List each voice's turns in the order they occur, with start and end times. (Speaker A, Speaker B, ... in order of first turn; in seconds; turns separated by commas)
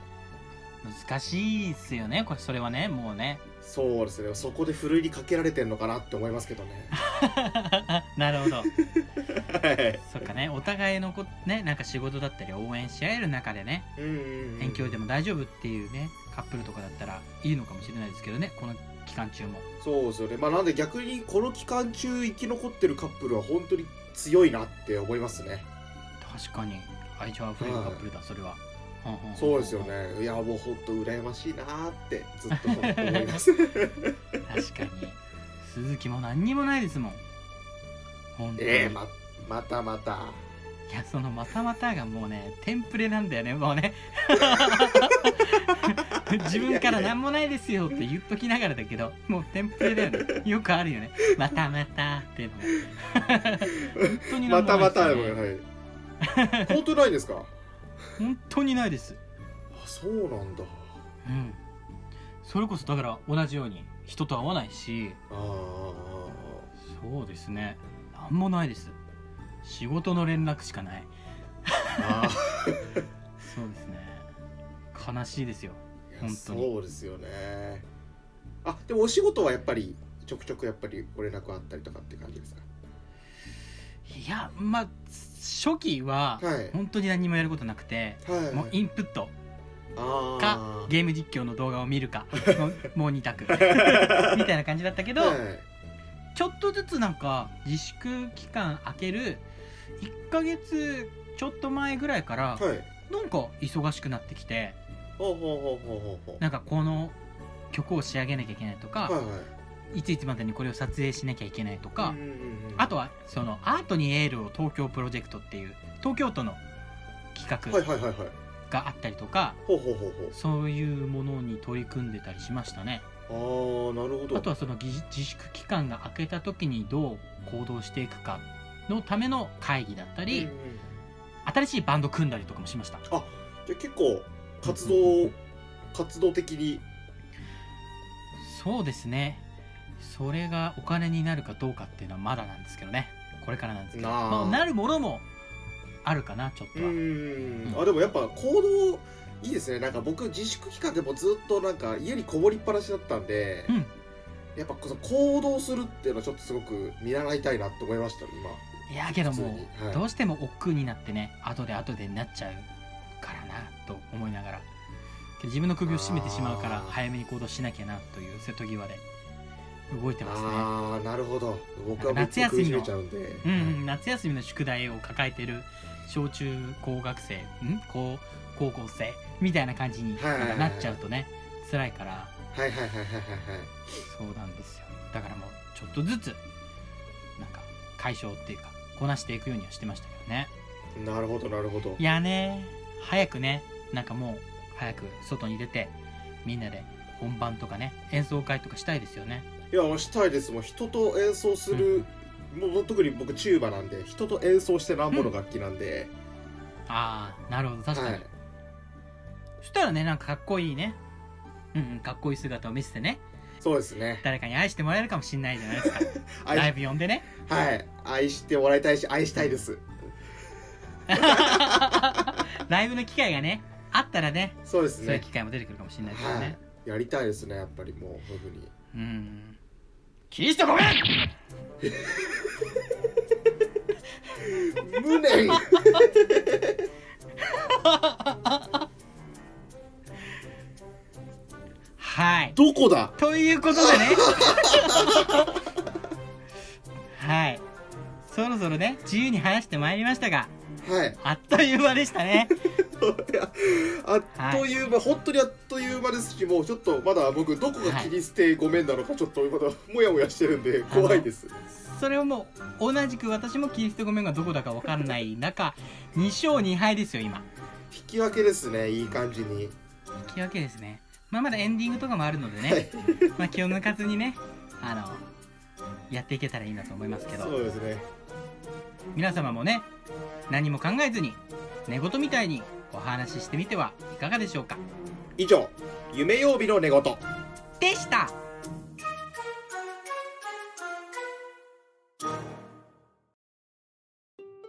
Speaker A: 0.8-3.4, Speaker B: 3.6-7.0, Speaker A: 6.9-8.7, Speaker B: 8.8-10.0, Speaker A: 10.0-13.9, Speaker B: 14.0-15.0, Speaker A: 14.6-19.7, Speaker B: 19.8-25.7, Speaker A: 26.2-29.9, Speaker B: 27.6-28.0, Speaker B: 29.4-34.2, Speaker A: 32.5-33.4, Speaker A: 34.5-37.2, Speaker A: 38.4-39.0, Speaker B: 38.6-40.4, Speaker A: 40.9-55.4, Speaker B: 44.5-45.4, Speaker B: 45.9-47.1, Speaker B: 49.8-50.2, Speaker B: 53.7-55.7, Speaker A: 56.2-56.8, Speaker B: 56.6-57.5, Speaker A: 58.2-59.2, Speaker B: 59.7-61.0, Speaker A: 61.2-61.6, Speaker A: 62.4-65.2, Speaker B: 65.3-66.7, Speaker A: 66.8-69.0, Speaker A: 69.6-71.1, Speaker A: 71.7-72.3, Speaker B: 72.0-73.0, Speaker A: 73.4-74.3, Speaker A: 74.9-76.7, Speaker B: 76.1-77.9, Speaker B: 78.6-82.7, Speaker A: 84.1-89.3, Speaker B: 86.4-86.8, Speaker B: 88.2-88.7, Speaker B: 90.0-90.9, Speaker A: 90.4-95.4, Speaker B: 93.5-94.5, Speaker B: 95.2-95.7, Speaker A: 96.4-99.5, Speaker A: 100.0-104.8, Speaker B: 102.6-102.9, Speaker B: 105.2-106.4, Speaker A: 106.4-107.2, Speaker A: 107.7-109.2, Speaker B: 109.0-109.5, Speaker A: 109.9-112.2, Speaker B: 112.0-112.9, Speaker A: 112.8-116.6, Speaker A: 117.3-117.8, Speaker B: 117.7-118.3, Speaker A: 118.7-119.6, Speaker B: 119.7-120.3, Speaker A: 120.3-123.0, Speaker B: 123.3-124.5, Speaker A: 124.3-130.5, Speaker B: 130.3-130.9, Speaker A: 131.4-133.1, Speaker B: 133.1-135.4, Speaker A: 134.7-135.3, Speaker B: 135.9-136.8, Speaker A: 138.4-139.4, Speaker A: 140.0-145.2, Speaker B: 143.9-144.7, Speaker A: 146.1-147.0, Speaker B: 146.8-153.7, Speaker B: 154.6-160.0, Speaker A: 158.9-162.7, Speaker A: 163.2-164.7, Speaker A: 165.4-169.0, Speaker B: 165.9-167.0, Speaker A: 169.9-170.7, Speaker B: 170.2-173.8, Speaker A: 172.0-172.9, Speaker A: 173.4-182.3, Speaker B: 180.2-181.0, Speaker B: 182.5-183.8, Speaker A: 184.0-186.4, Speaker A: 187.4-190.5, Speaker B: 190.9-192.0, Speaker A: 192.0-199.5, Speaker B: 199.7-206.1, Speaker A: 201.7-202.1, Speaker A: 206.9-208.2, Speaker B: 207.9-208.3, Speaker A: 209.6-211.0, Speaker A: 211.7-213.2, Speaker B: 213.6-214.2, Speaker A: 214.2-217.3, Speaker B: 215.8-216.8, Speaker B: 217.3-219.9, Speaker A: 221.1-226.6, Speaker B: 221.1-222.4, Speaker B: 224.7-225.3, Speaker B: 226.1-228.7, Speaker A: 228.9-229.6, Speaker A: 230.3-231.3, Speaker B: 231.8-232.7, Speaker B: 234.4-236.9, Speaker A: 237.5-238.8, Speaker A: 242.0-242.6, Speaker B: 242.6-243.2, Speaker A: 243.2-245.5, Speaker B: 243.7-245.6, Speaker A: 247.1-247.6, Speaker A: 248.3-250.5, Speaker B: 250.8-251.2, Speaker A: 251.2-252.7, Speaker B: 252.7-261.6, Speaker A: 254.3-254.7, Speaker A: 257.8-258.1, Speaker A: 260.9-267.5, Speaker B: 267.9-269.8, Speaker A: 270.2-275.3, Speaker B: 272.6-273.4, Speaker A: 276.1-277.6, Speaker B: 277.3-278.1, Speaker A: 279.1-279.9, Speaker A: 280.5-284.8, Speaker B: 285.4-287.2, Speaker A: 287.8-288.4